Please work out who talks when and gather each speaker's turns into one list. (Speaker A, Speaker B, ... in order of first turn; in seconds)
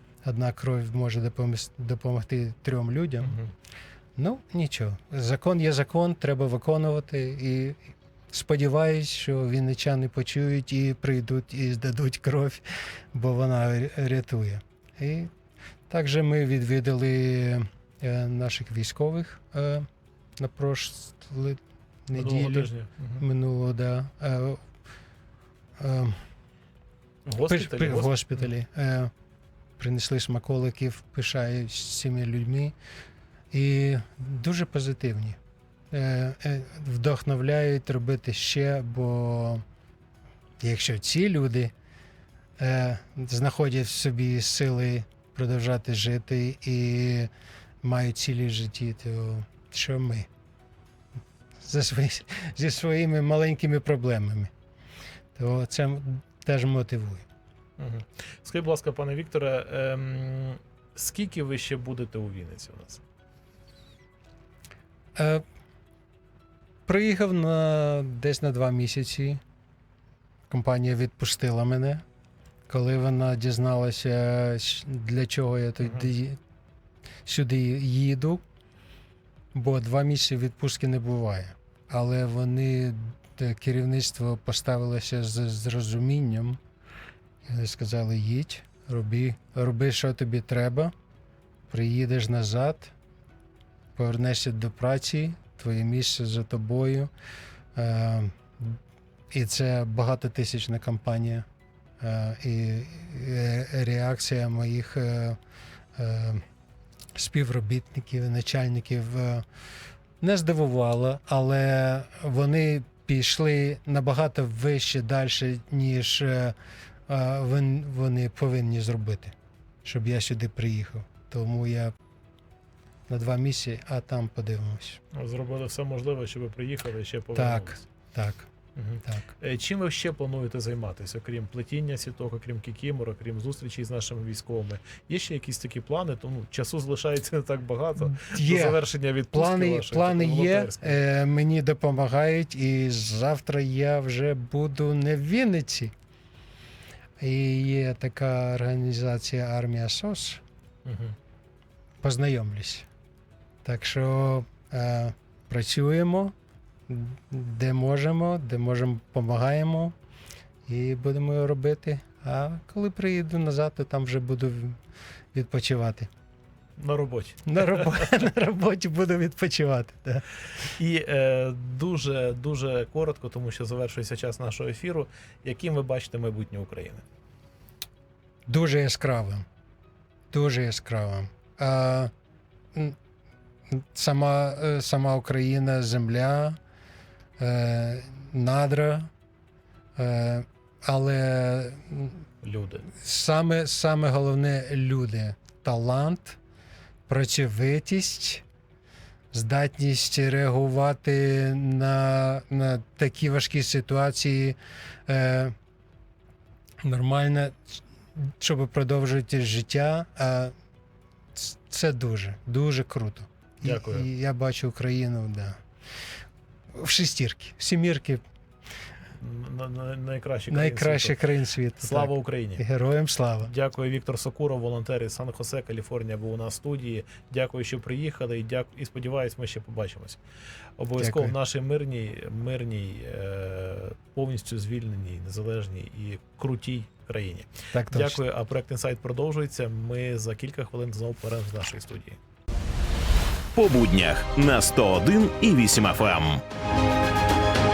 Speaker A: 0.2-3.4, 4.2-7.8, 8.3-15.3, 15.9-19.9, 20.4-24.6, 25.8-26.2, 27.4-29.1, 29.8-32.7, 33.5-35.4, 35.9-39.6, 40.6-41.7, 42.6-47.3, 47.8-50.3, 51.6-54.5, 55.3-57.2, 65.2-65.4, 66.8-69.4, 70.5-72.0, 72.7-76.4, 77.2-78.4, 79.5-86.6, 87.4-90.9, 91.7-92.9, 94.0-97.1, 97.7-98.8, 99.3-101.5, 102.0-105.4, 106.0-106.4, 107.1-109.4, 110.2-116.5, 117.1-119.3, 119.8-121.9, 123.1-125.0, 127.3-128.5, 129.0-129.3, 138.2-145.9, 147.2-150.4, 152.0-152.9, 153.6-156.3, 156.9-159.9, 160.7-164.8, 165.3-166.1, 167.5-170.2, 178.4-179.4, 180.3-182.1, 183.7-186.6, 187.4-189.1, 189.9-192.2, 192.9-196.4, 197.1-198.4, 199.3-205.5, 206.8-207.6, 208.2-210.5, 211.3-215.6, 216.7-218.2, 220.5-223.5, 231.0-231.3, 237.7-238.2
Speaker B: 3.2-3.5, 22.1-23.2, 27.2-28.5, 57.8-63.0, 75.8-76.1, 125.1-127.8, 128.8-141.0, 150.8-151.1, 166.8-168.1, 170.8-177.0, 192.4-192.9, 213.6-214.1, 219.2-221.2, 221.8-222.6, 223.4-230.2, 230.8-242.2
Speaker C: 243.5-246.4